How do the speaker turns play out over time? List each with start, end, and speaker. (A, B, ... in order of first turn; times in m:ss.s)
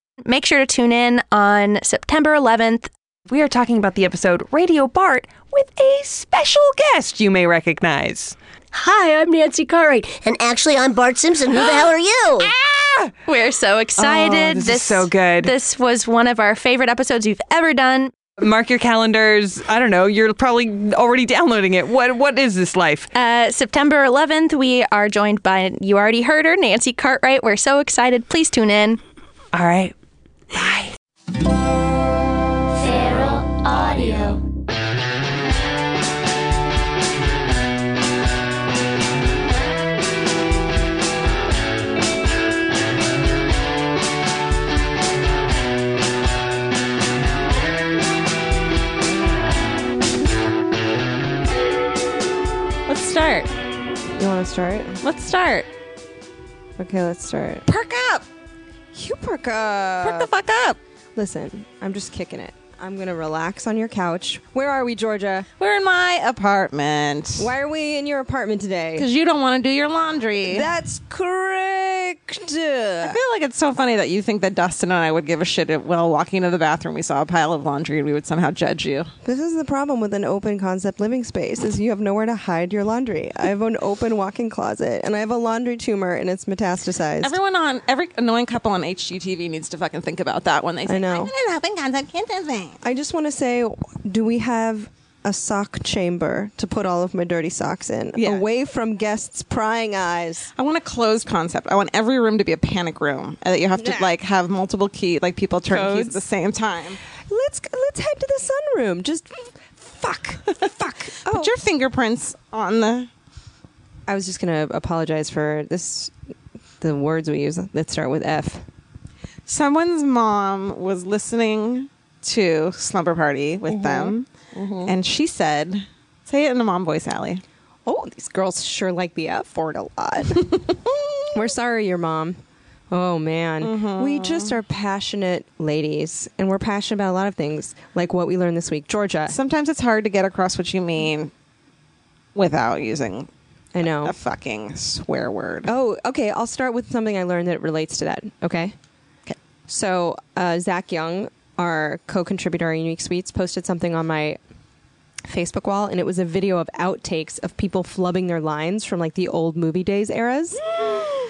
0:00.2-0:02.9 A
0:03.3-0:08.4 B
0:08.7-0:12.5 C
0:11.6-0:11.8 B
0:12.6-0:13.1 B
0:13.2-0:18.1 A
0:14.0-0:15.5 B
0:18.4-0:23.1 B
0:23.1-0:29.0 A
0:29.5-0:29.9 B
0:30.5-0:30.9 B
0:32.7-0:34.4 C
0:52.9-0:53.5 D
0:54.2-0:55.0 E
0:55.0-0:55.7 D
0:56.8-0:57.6 E
0:57.7-0:58.2 D
0:58.9-1:00.3 E
1:00.0-1:00.8 D
1:01.1-1:05.5 E
1:05.6-1:07.5 D
1:07.4-1:09.1 E
1:09.0-1:10.7 D
1:10.5-1:13.2 E
1:13.0-1:19.1 D
1:19.2-1:27.4 E
1:27.2-1:32.8 D
1:30.8-1:31.3 E
1:32.8-1:40.5 E
1:38.1-1:38.4 D
1:40.6-1:47.0 D
1:43.8-1:44.1 E
1:45.7-1:46.2 E
1:47.3-1:51.5 E
1:51.2-1:53.1 D
1:54.1-1:56.1 E
1:56.8-1:58.6 E
1:59.5-2:04.3 D
2:03.7-2:04.9 E
2:04.8-2:07.4 D
2:07.8-2:10.6 E
2:10.4-2:11.3 D
2:11.3-2:19.4 E
2:13.6-2:14.6 D
2:19.3-2:21.3 D
2:22.3-2:23.3 D
2:23.7-2:24.2 E
2:23.8-2:25.7 D
2:25.7-2:28.7 E
2:29.7-2:34.4 E
2:35.2-2:40.6 E
2:40.7-2:41.1 D